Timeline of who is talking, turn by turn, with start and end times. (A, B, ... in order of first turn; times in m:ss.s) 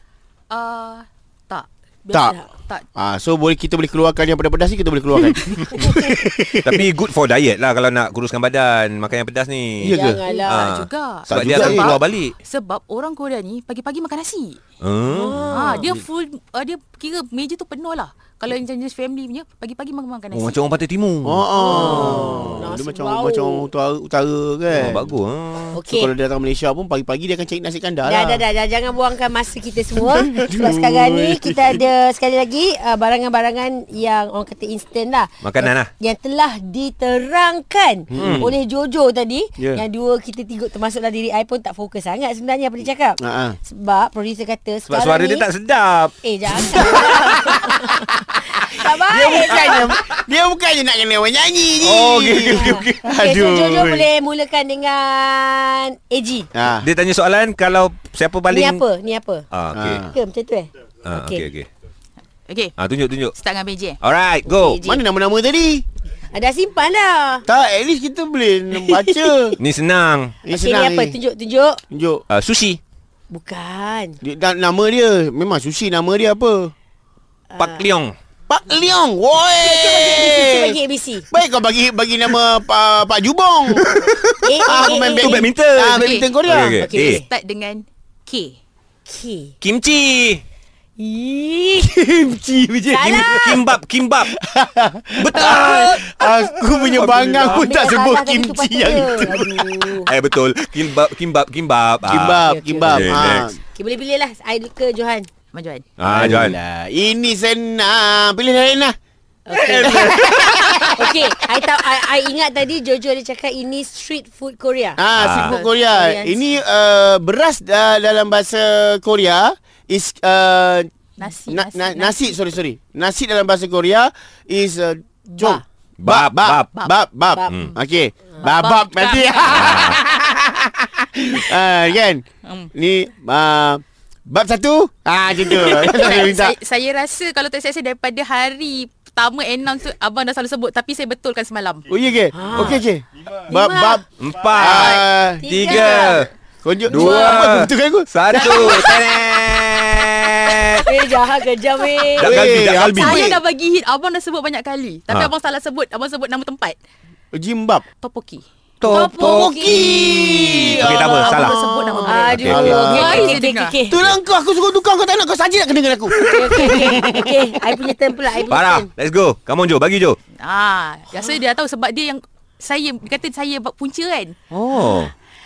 0:00.5-0:02.8 A
0:02.9-0:06.8 B
0:06.6-0:12.3 C
0:09.8-0:10.2 B
0:09.9-0:10.6 D
0:10.2-0:14.6 A
0:11.3-0:12.0 B
0:14.8-0:15.5 C
0:15.1-0:15.9 D
0:15.5-0:20.6 A
0:20.3-0:22.6 C
0:21.2-0:25.1 B
0:21.6-0:23.6 D
0:24.7-0:25.8 C
0:25.7-0:26.1 D
0:25.9-0:28.4 B
0:28.0-0:45.5 D
0:30.2-0:31.8 B
0:35.4-0:35.9 C
0:38.1-0:38.5 B
0:38.1-0:38.5 C
0:43.2-0:43.6 B
0:44.9-0:46.1 C
0:46.2-0:49.9 D
0:46.7-0:47.6 C
0:49.0-0:54.0 B
0:51.8-0:52.8 C
0:52.5-0:56.5 D
0:56.5-0:56.9 B
0:56.8-0:58.8 C
0:58.5-0:59.5 D
0:59.5-1:00.0 C
0:59.7-1:00.1 B
1:00.1-1:01.4 D
1:01.0-1:01.7 C
1:02.5-1:02.8 A
1:02.8-1:03.3 C
1:03.3-1:04.0 A
1:04.0-1:04.8 C
1:04.4-1:05.0 D
1:04.8-1:05.8 B
1:06.3-1:07.4 D
1:07.4-1:09.5 B
1:08.8-1:09.6 D
1:09.6-1:10.4 C
1:10.4-1:11.2 B
1:10.4-1:11.8 D
1:11.9-1:12.2 B
1:12.3-1:12.8 C
1:13.3-1:14.2 D
1:14.2-1:16.7 B
1:17.5-1:17.8 D
1:17.6-1:18.1 C
1:18.5-1:20.8 B
1:19.6-1:21.3 D
1:21.3-1:23.9 B
1:23.8-1:27.2 C
1:24.4-1:25.5 D
1:24.6-1:26.8 B
1:24.9-1:25.2 A
1:26.0-1:28.6 A
1:26.8-1:27.2 D
1:29.1-1:29.5 D
1:29.6-1:30.4 C
1:31.0-1:31.9 D
1:31.8-1:33.7 B
1:32.9-1:33.4 D
1:33.0-1:34.3 C
1:34.3-1:39.9 B
1:35.2-1:36.0 C
1:35.3-1:36.9 D
1:37.0-1:37.6 C
1:37.5-1:40.1 D
1:40.0-1:43.5 C
1:42.0-1:43.6 B
1:42.4-1:43.1 D
1:43.7-1:45.3 D
1:45.5-1:45.8 A
1:46.0-1:46.6 C
1:46.0-1:49.0 B
1:49.4-1:55.0 D
1:49.5-1:51.0 B
1:49.7-1:50.9 C
1:55.0-2:00.9 B
1:55.2-1:55.6 C
1:55.5-1:55.7 A
1:55.7-1:56.4 D
2:01.2-2:02.4 A
2:01.5-2:16.5 B
2:05.3-2:05.6 D
2:06.0-2:06.7 C
2:08.5-2:09.6 A
2:09.5-2:10.0 C
2:12.4-2:12.7 A
2:15.5-2:21.8 A
2:21.9-2:25.5 B
2:22.3-2:22.8 D
2:23.5-2:24.0 D
2:24.2-2:26.3 C
2:24.6-2:24.9 D
2:24.7-2:26.2 A
2:25.4-2:26.2 D
2:26.6-2:28.1 B
2:26.9-2:30.9 C
2:26.9-2:27.2 D
2:26.9-2:27.5 A
2:28.3-2:29.4 A
2:30.8-2:32.4 D
2:32.2-2:33.2 C
2:32.2-2:33.4 B
2:32.8-2:36.8 A
2:37.3-2:37.8 B
2:38.0-2:38.4 A
2:38.8-2:39.6 C
2:38.8-2:40.8 D
2:38.9-2:43.4 B
2:40.8-2:41.6 C
2:41.0-2:43.8 A
2:42.0-2:44.0 D
2:42.4-2:42.8 C
2:43.9-2:47.3 B
2:46.2-2:48.9 D
2:48.5-2:50.2 C
2:50.4-2:54.3 A
2:54.5-2:55.1 C